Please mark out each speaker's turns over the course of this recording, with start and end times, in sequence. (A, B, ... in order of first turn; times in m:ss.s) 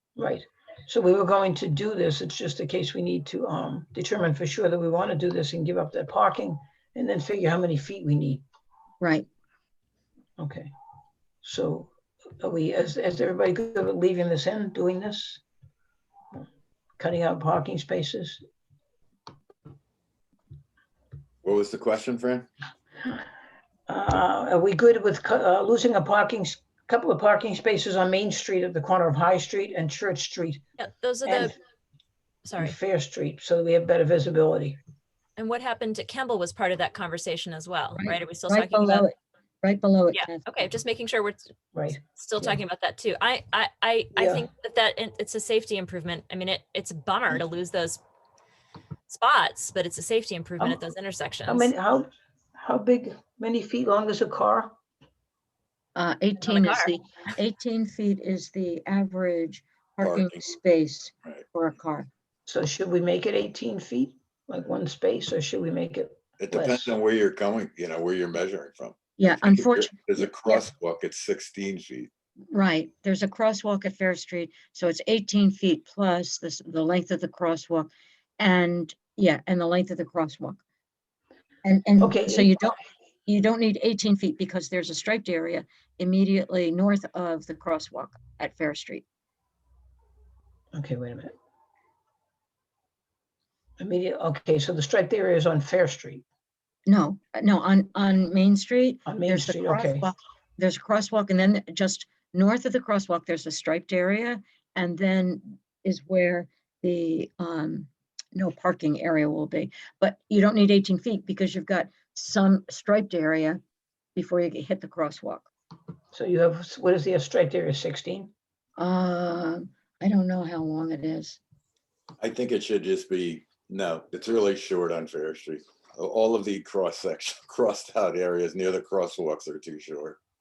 0:00.2-0:08.4 A
0:09.0-0:09.3 B
0:10.4-0:10.7 A
0:11.4-0:15.4 A
0:17.0-0:18.4 A
0:21.4-0:22.5 C
0:23.9-0:30.6 A
0:30.8-0:31.6 D
0:31.2-0:31.5 A
0:32.4-0:32.7 D
0:32.6-0:34.8 A
0:35.4-0:39.1 D
0:38.0-0:40.7 B
0:40.1-0:48.0 D
0:41.7-0:42.6 A
0:44.2-0:44.5 A
0:49.1-0:51.7 D
0:51.5-0:54.8 A
0:56.0-1:02.1 B
0:56.4-0:56.9 D
1:00.0-1:00.4 C
1:02.5-1:06.9 A
1:06.4-1:12.1 C
1:09.2-1:10.6 B
1:12.5-1:20.6 B
1:21.6-1:22.8 B
1:22.0-1:22.5 A
1:23.3-1:29.0 B
1:30.7-1:31.3 A
1:33.8-1:36.2 A
1:36.9-1:53.6 B
1:39.1-1:40.1 A
1:54.2-1:55.5 B
1:56.1-1:58.3 A
1:58.8-2:01.4 B
2:02.2-2:10.2 C